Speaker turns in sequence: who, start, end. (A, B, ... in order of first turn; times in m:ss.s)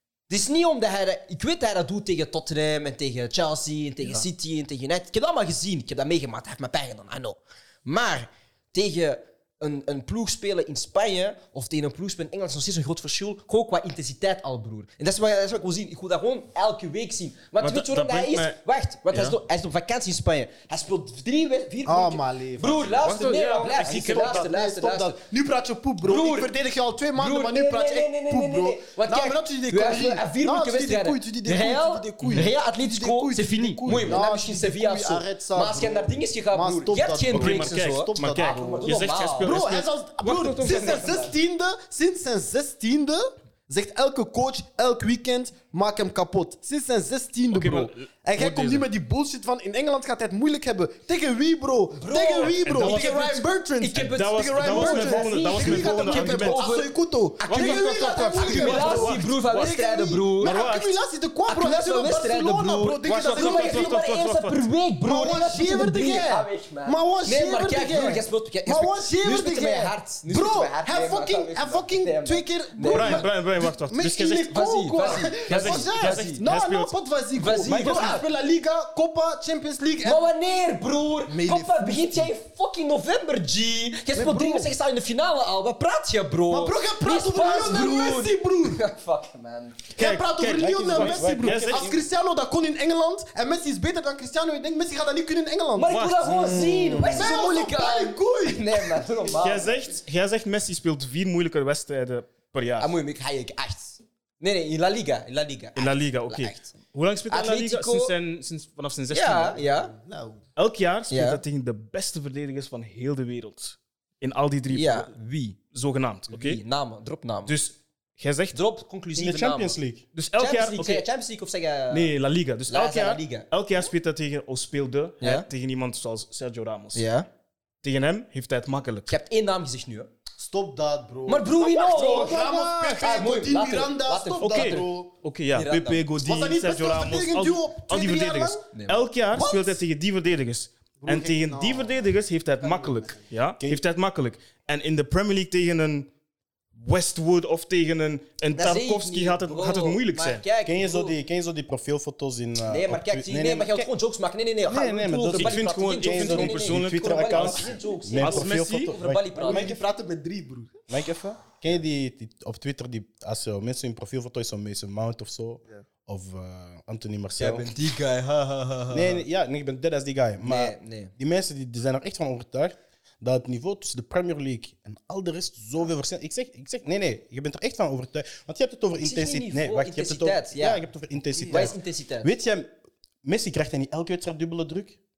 0:00.3-0:25.2 A
0:17.6-0:18.6 B
0:19.1-0:19.4 B
0:21.8-0:23.2 C
0:23.0-0:24.5 B
0:23.8-1:04.0 C
0:26.0-0:26.5 A
0:27.1-0:39.6 A
0:33.9-0:34.2 B
0:37.3-0:41.3 B
0:40.9-0:41.1 A
0:47.5-0:48.9 B
0:52.0-0:53.2 A
0:52.4-0:56.6 B
0:53.8-1:00.6 A
0:57.5-0:59.7 B
1:00.4-1:01.0 B
1:01.5-1:13.3 A
1:03.0-1:04.6 B
1:05.0-1:20.3 C
1:12.8-1:16.9 B
1:14.5-1:16.4 A
1:17.3-1:18.2 A
1:20.0-1:29.9 A
1:21.3-1:22.3 C
1:24.1-1:24.7 C
1:26.5-1:28.8 C
1:30.0-1:32.0 B
1:30.0-1:39.4 C
1:30.4-1:32.0 D
1:35.7-1:39.7 A
1:35.9-1:36.4 B
1:37.0-1:37.3 B
1:39.4-1:42.9 B
1:42.8-1:46.7 A
1:45.8-1:49.6 B
1:47.3-1:48.1 A
1:49.1-1:49.9 A
1:49.6-1:50.4 C
1:50.6-1:55.1 B
1:51.1-1:51.4 A
1:54.7-1:55.6 A
1:55.7-1:56.6 B
1:56.3-1:57.6 A
1:57.5-1:58.6 B
1:58.5-1:59.8 A
1:59.2-2:00.0 D
2:00.1-2:01.0 B
2:00.4-2:02.1 A
2:01.9-2:07.0 B
2:02.7-2:03.5 A
2:05.2-2:05.5 A
2:06.9-2:07.3 A
2:07.8-2:09.1 B
2:09.1-2:10.1 A
2:10.4-2:15.1 C
2:11.3-2:14.9 A
2:14.4-2:26.1 B
2:15.5-2:16.0 A
2:16.2-2:18.6 C
2:18.7-2:19.0 A
2:19.3-2:19.8 C
2:21.0-2:22.0 C
2:22.6-2:23.2 C
2:26.7-2:30.4 B
2:28.5-2:31.2 A
2:30.6-2:33.9 D
2:32.6-2:39.8 A
2:34.6-2:39.8 D
2:35.3-2:38.9 B
2:39.4-2:40.8 C
2:40.9-2:47.7 D
2:47.4-2:49.2 A
2:48.9-3:05.0 D
2:50.4-2:51.1 A
2:59.0-3:00.8 A
3:01.4-3:01.7 C
3:01.5-3:02.3 A